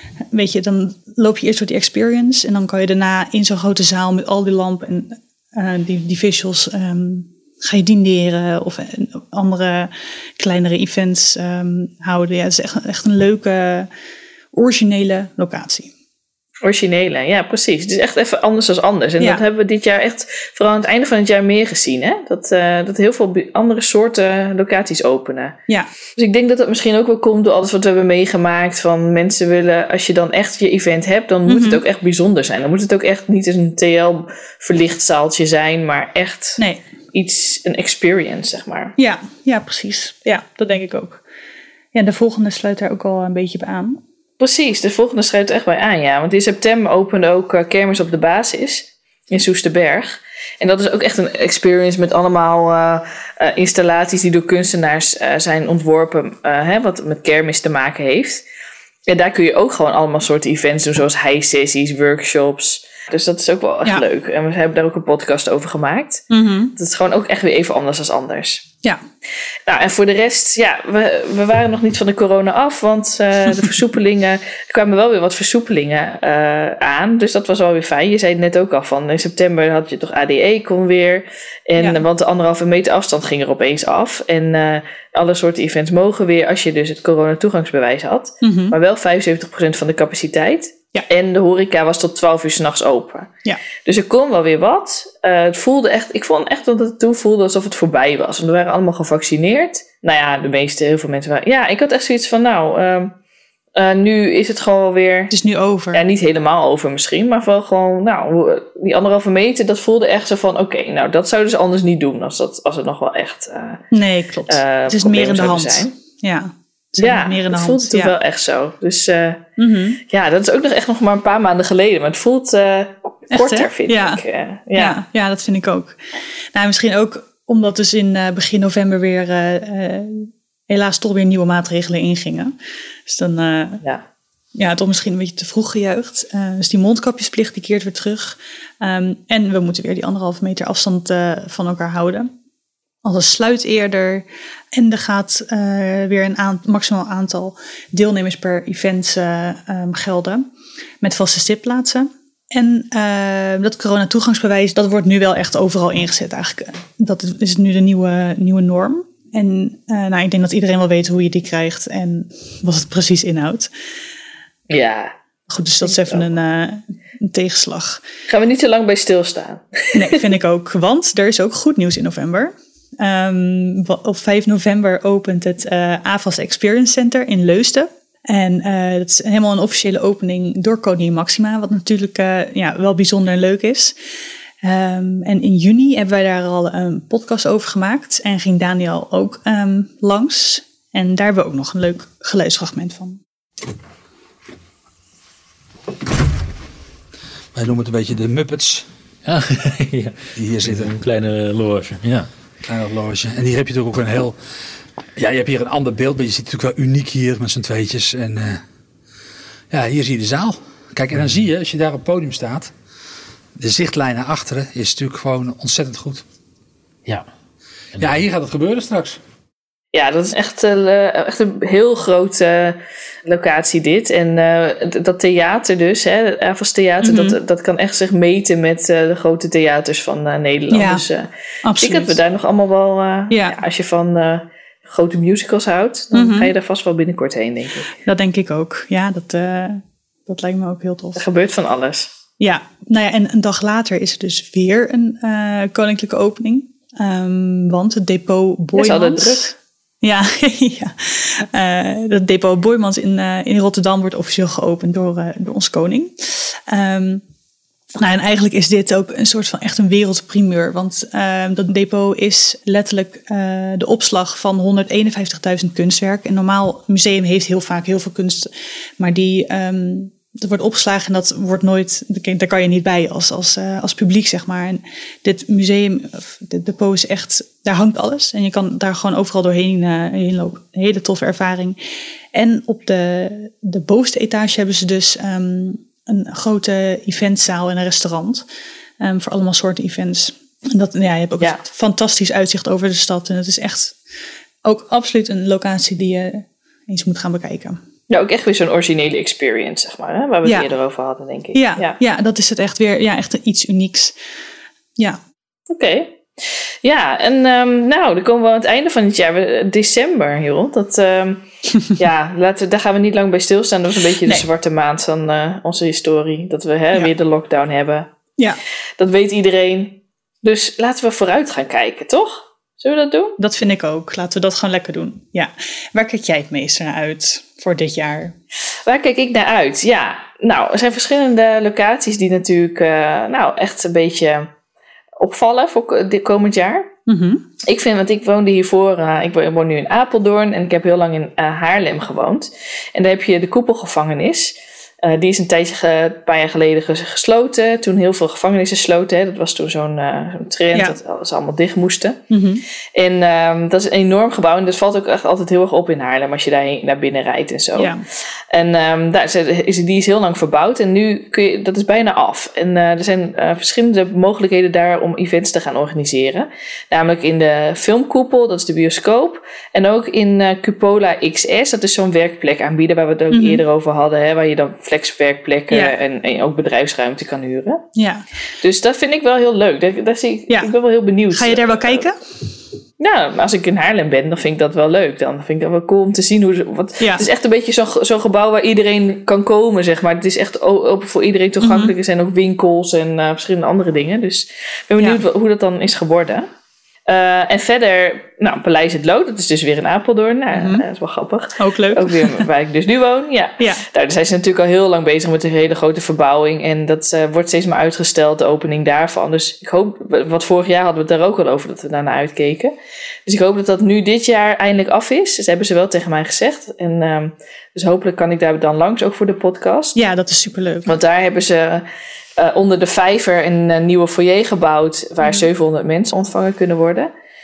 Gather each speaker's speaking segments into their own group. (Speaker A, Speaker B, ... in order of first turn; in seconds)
Speaker A: 0.3-13.9, 14.5-15.9, 31.5-31.8, 39.0-41.2, 41.9-44.0, 66.3-66.7, 81.8-82.0, 88.4-88.8, 105.3-106.0, 113.9-118.1, 119.6-120.0, 123.3-124.2, 124.8-126.0, 126.5-132.5, 133.1-133.8, 134.6-142.3, 143.0-150.5, 151.0-163.7, 165.5-168.0, 169.9-183.9, 184.6-193.2, 227.0-227.4, 230.7-231.1, 231.6-232.2, 233.3-233.6, 236.1-236.5, 238.0-241.2, 242.4-257.2, 258.0-281.8, 282.3-288.4, 289.0-294.0, 294.6-297.8, 300.4-300.7, 301.5-304.1, 323.4-328.4, 337.1-337.4, 352.3-352.6, 357.8-358.0, 373.3-373.6, 378.0-378.2, 381.3-382.2, 387.0-387.3, 391.6-391.9, 400.5-400.9, 401.6-402.5, 420.0-420.9
Speaker B: 16.6-25.6, 26.1-36.6, 37.1-38.9, 44.4-58.4, 59.1-68.7, 69.7-103.2, 103.8-105.3, 105.9-113.8, 114.5-115.9, 117.0-119.4, 120.1-125.0, 164.7-165.1, 165.8-166.3, 168.3-170.2, 219.9-238.0, 241.2-242.1, 248.8-249.6, 298.1-302.0, 305.7-311.4, 312.0-318.1, 319.0-323.4, 328.9-334.5, 335.2-336.9, 337.6-352.2, 352.9-357.9, 358.5-377.8, 378.6-382.1, 383.0-396.5, 397.1-412.8, 413.3-420.0, 420.9-421.9, 422.4-427.1
Speaker C: 197.6-198.9, 200.4-200.9, 202.6-204.4, 205.2-208.6, 209.7-212.7, 213.6-216.2, 218.0-219.2
Speaker D: 199.2-202.3